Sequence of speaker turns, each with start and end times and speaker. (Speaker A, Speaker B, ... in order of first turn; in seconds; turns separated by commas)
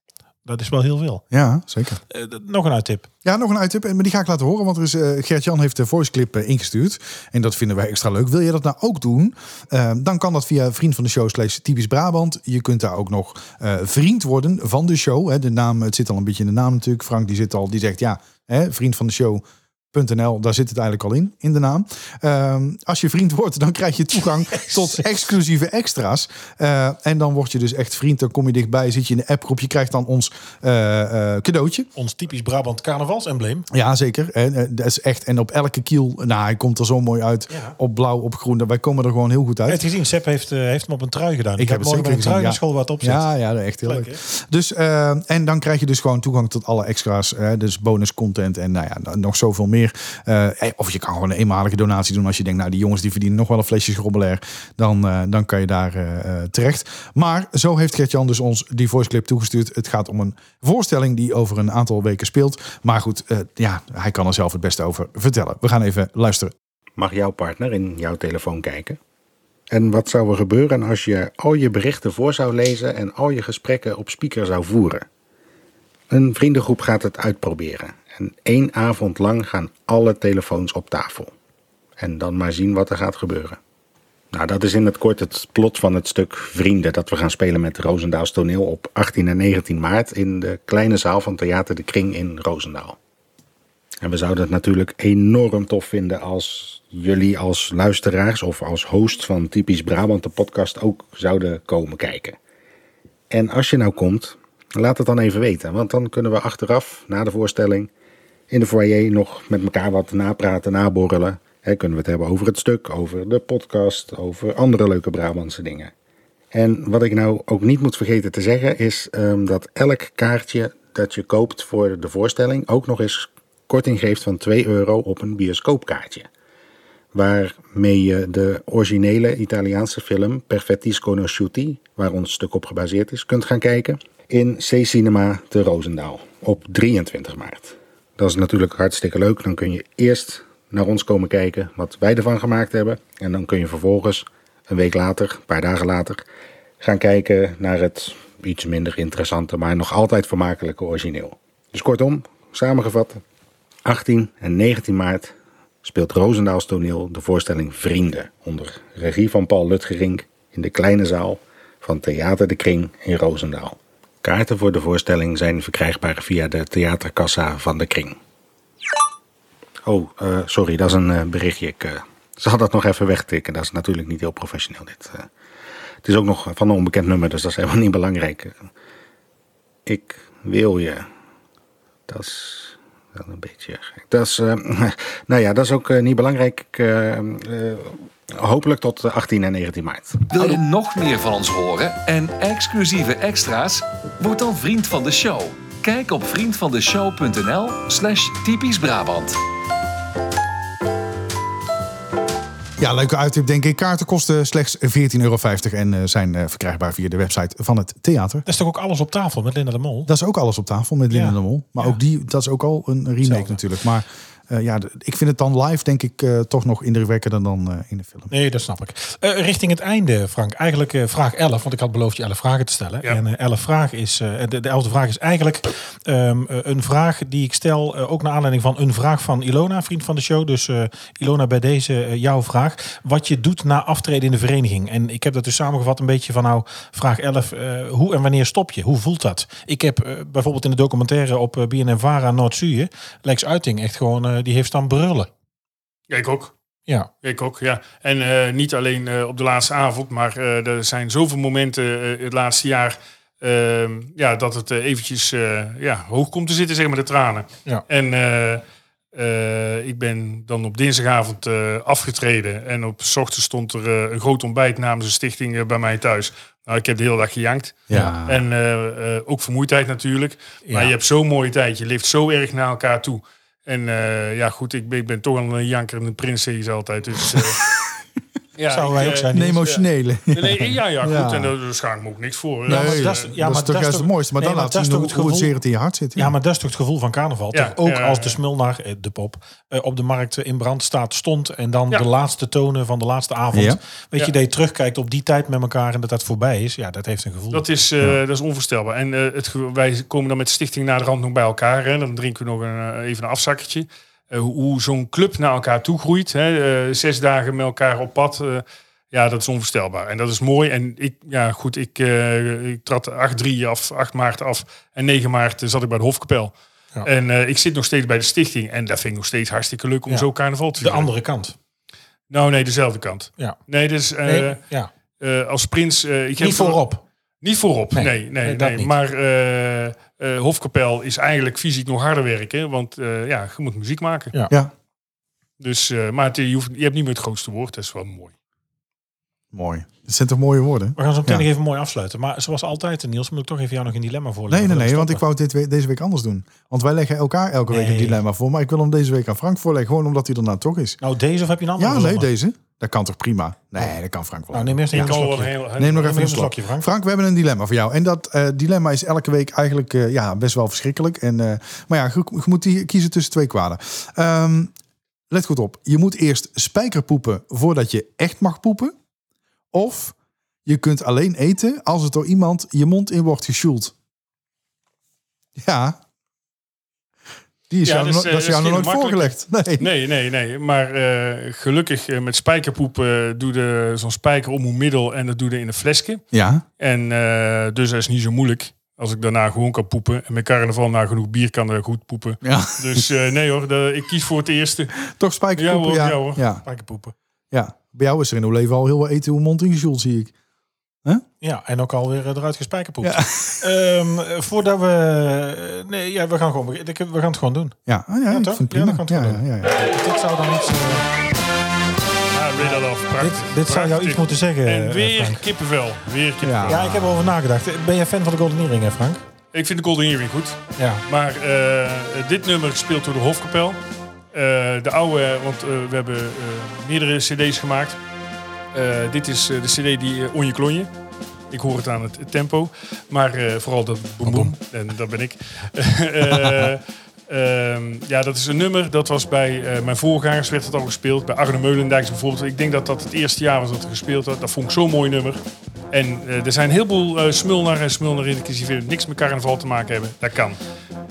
Speaker A: 0.4-1.2, Speaker B: 1.3-2.0, Speaker A: 2.1-3.1, Speaker B: 3.2-31.9, Speaker A: 24.5-25.2, Speaker A: 31.9-33.7, Speaker B: 33.7-39.8, Speaker A: 37.5-37.8, Speaker A: 39.7-43.3, Speaker B: 41.6-66.5, Speaker A: 43.8-44.2, Speaker C: 67.0-69.0, Speaker C: 69.7-75.0, Speaker C: 76.1-81.3, Speaker C: 82.0-83.6, Speaker C: 84.3-93.0, Speaker C: 94.0-102.4, Speaker C: 103.3-107.9, Speaker C: 108.5-115.9, Speaker C: 116.5-126.3, Speaker C: 127.1-146.2, Speaker C: 146.8-153.2, Speaker C: 153.8-168.2, Speaker C: 169.8-175.3, Speaker C: 176.0-178.6, Speaker C: 179.9-181.1, Speaker C: 182.1-190.6, Speaker D: 190.3-199.4, Speaker B: 202.8-208.4, Speaker A: 208.4-210.1, Speaker B: 210.1-218.3, Speaker A: 211.1-212.0, Speaker A: 213.2-213.6, Speaker A: 218.3-245.3, Speaker E: 246.1-246.5, Speaker E: 247.2-258.6, Speaker E: 259.1-277.6, Speaker B: 267.9-268.4, Speaker A: 270.6-270.9, Speaker B: 277.3-277.8, Speaker E: 278.6-279.8, Speaker A: 278.7-279.7, Speaker B: 279.3-281.5, Speaker E: 280.3-283.2, Speaker A: 282.7-285.6, Speaker B: 282.7-286.3, Speaker A: 286.1-297.6, Speaker E: 287.5-288.4, Speaker B: 293.5-293.8, Speaker E: 297.5-321.1, Speaker A: 320.1-321.6, Speaker E: 322.3-324.6, Speaker A: 324.2-324.9, Speaker E: 325.2-326.8, Speaker A: 326.4-327.0, Speaker E: 327.4-334.3, Speaker A: 327.9-328.9, Speaker E: 335.6-338.3, Speaker B: 339.5-341.5, Speaker A: 341.0-345.2, Speaker B: 344.5-351.0, Speaker A: 347.7-348.2, Speaker A: 351.0-352.3, Speaker B: 351.8-355.2, Speaker A: 354.5-356.9, Speaker E: 354.9-356.1, Speaker B: 355.8-364.7, Speaker B: 365.3-368.9, Speaker B: 369.7-370.1, Speaker B: 370.6-373.9, Speaker B: 375.6-376.0, Speaker B: 377.7-379.9, Speaker E: 377.8-386.2, Speaker B: 386.3-386.6, Speaker E: 386.8-395.0, Speaker B: 392.4-393.1, Speaker B: 395.1-396.6, Speaker E: 395.6-396.4, Speaker A: 396.6-397.1, Speaker B: 397.5-400.3, Speaker A: 401.4-407.8, Speaker B: 403.0-403.6, Speaker B: 407.9-409.7, Speaker A: 408.3-411.1, Speaker E: 412.3-416.9, Speaker A: 412.6-415.4, Speaker B: 416.4-417.1, Speaker A: 416.7-419.2, Speaker E: 419.5-423.8, Speaker A: 420.8-421.0, Speaker E: 424.3-428.0, Speaker E: 428.7-430.9, Speaker E: 431.5-445.4, Speaker A: 434.3-434.5, Speaker E: 445.9-450.6